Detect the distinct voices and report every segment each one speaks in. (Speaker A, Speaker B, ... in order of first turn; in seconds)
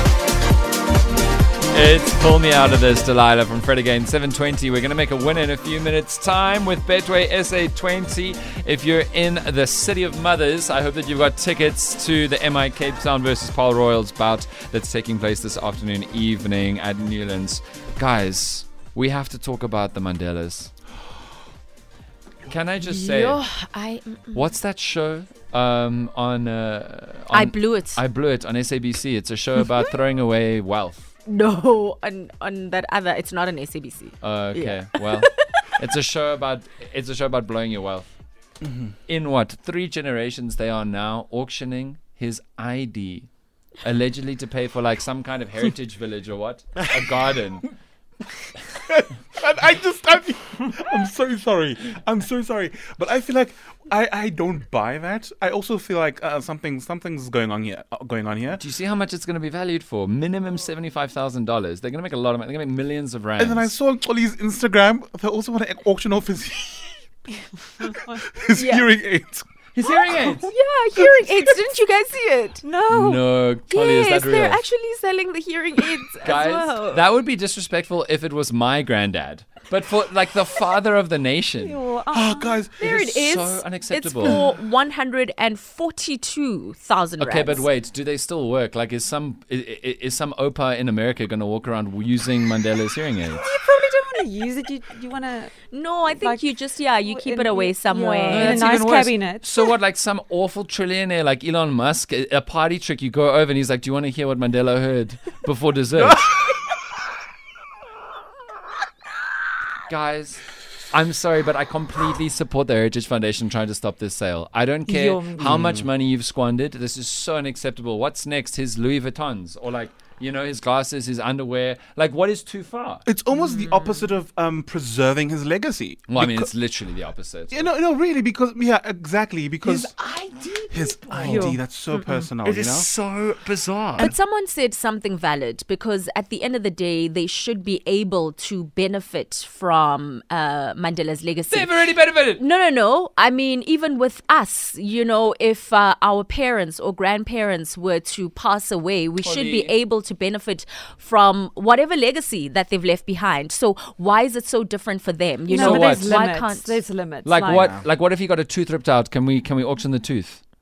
Speaker A: 1.7-20.7, 22.5-23.4, 24.3-31.0, 34.2-38.1, 39.1-43.3, 43.8-47.7, 58.6-63.7, 69.7-70.5, 72.9-74.6, 76.2-81.8, 82.8-84.5, 87.2-93.4, 98.3-106.4, 109.9-123.0, 126.1-127.7, 129.6-131.6, 132.1-134.1, 141.5-142.4, 149.2-149.7, 155.5-156.1, 157.2-160.4
Speaker B: 22.9-24.5, 27.3-28.0, 31.2-35.3, 68.5-68.8, 70.4-72.6, 73.7-77.0, 82.8-87.7, 95.7-98.6, 134.0-141.7, 142.4-156.8
Speaker C: 48.7-58.6, 63.4-67.0, 67.8-69.5, 82.1-82.8, 115.4-115.8, 123.0-126.5, 127.5-129.9, 130.7-132.9, 157.4-157.8
Speaker D: 72.6-73.2, 81.6-82.7, 93.3-99.6, 114.9-115.5, 131.2-131.6, 155.5-157.8